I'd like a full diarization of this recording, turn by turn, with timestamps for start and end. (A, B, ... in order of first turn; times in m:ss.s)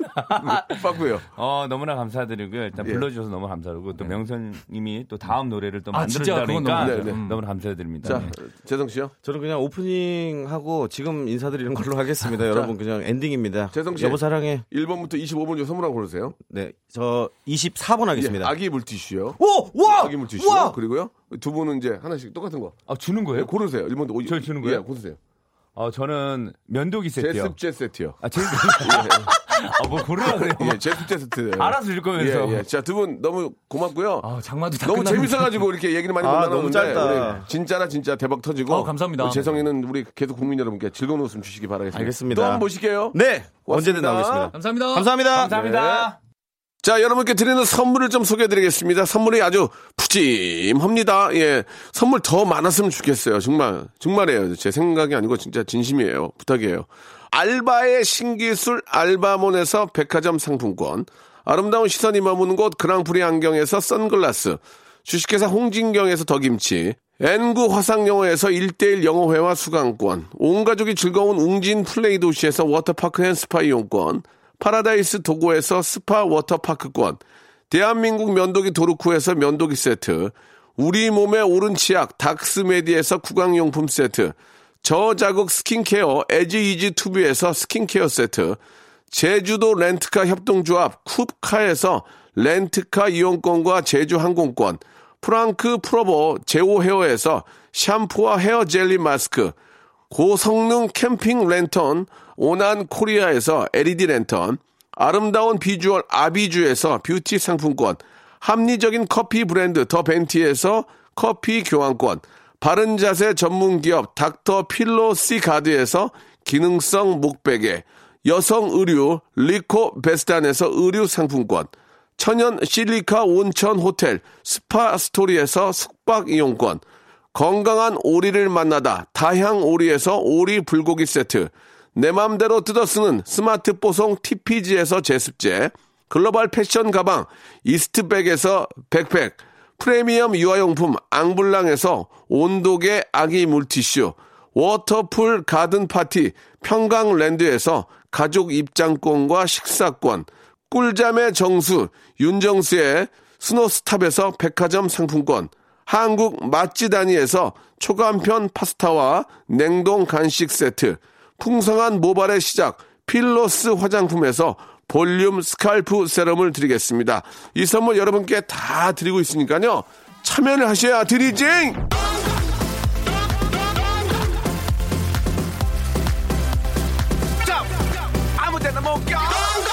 0:00.2-0:08.3 A
0:00.2-0:01.3 B
0:02.8-0:03.1 B
0:05.9-0:07.4 C
0:06.8-0:07.2 B
0:08.0-0:09.1 B
0:09.2-0:14.6 D
0:12.5-0:12.7 B
0:13.7-0:16.4 B
0:16.5-0:18.5 D
0:18.1-0:22.8 B
0:19.4-0:20.8 D
0:22.9-0:23.5 A
0:23.3-0:25.2 B
0:24.2-0:24.8 A
0:25.8-0:27.6 A
0:27.2-0:29.3 B
0:28.2-0:32.7 A
0:30.2-0:34.3 B
0:34.2-0:35.7 C
0:34.8-0:44.5 B
0:36.2-0:37.5 D
0:38.7-0:39.6 C
0:41.9-0:45.5 D
0:44.5-0:45.1 C
0:45.3-0:46.2 A
0:45.4-0:46.1 B
0:46.8-1:28.6 B
1:29.1-1:39.6 B
1:40.1-2:06.8 B
2:07.3-2:51.9 B
2:58.4-2:59.3 B